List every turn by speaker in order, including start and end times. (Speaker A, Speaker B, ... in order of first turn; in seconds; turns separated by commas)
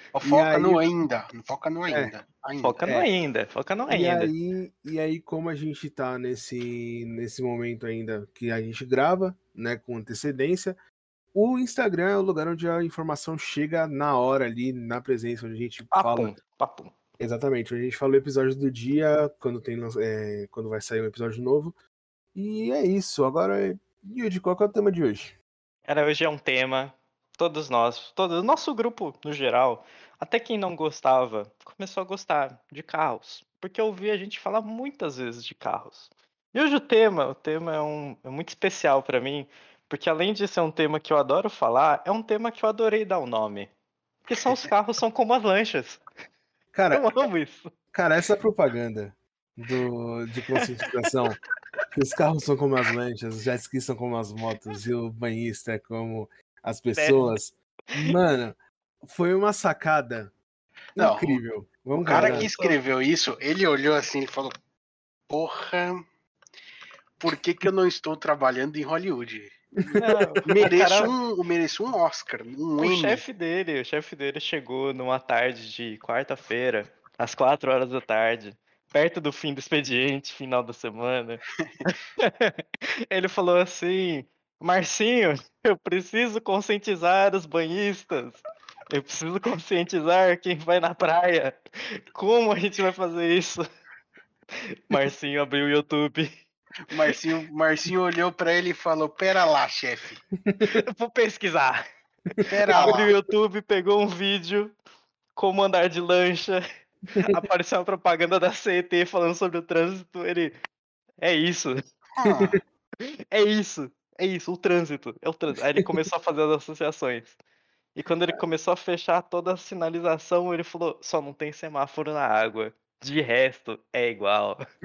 Speaker A: 0.1-2.8, Speaker B: 0.2-0.8, Speaker C: 2.6-4.3, Speaker B: 2.8-3.1, Speaker B: 3.9-10.8, Speaker B: 11.3-16.4, Speaker C: 15.9-16.9, Speaker B: 17.2-21.8, Speaker B: 22.4-25.4, Speaker C: 25.9-43.7, Speaker C: 44.3-46.0, Speaker B: 46.7-47.1, Speaker C: 46.9-47.7, Speaker B: 47.9-51.4, Speaker B: 51.9-60.3, Speaker C: 56.9-57.4, Speaker A: 61.0-61.4, Speaker B: 61.0-62.5, Speaker A: 62.0-64.5, Speaker C: 62.0-62.8, Speaker A: 65.3-66.0, Speaker A: 67.2-73.2, Speaker B: 69.9-70.2, Speaker C: 70.0-71.2, Speaker C: 72.8-93.7, Speaker C: 94.9-96.3, Speaker A: 96.9-100.2, Speaker B: 100.5-100.8, Speaker C: 100.7-101.8, Speaker B: 102.3-103.1, Speaker A: 102.5-103.2, Speaker C: 102.7-104.7, Speaker C: 105.4-106.6, Speaker B: 107.1-107.4, Speaker C: 107.2-110.5, Speaker C: 111.2-111.8, Speaker A: 112.2-112.6, Speaker B: 112.2-112.6, Speaker C: 113.0-117.4, Speaker C: 118.0-124.6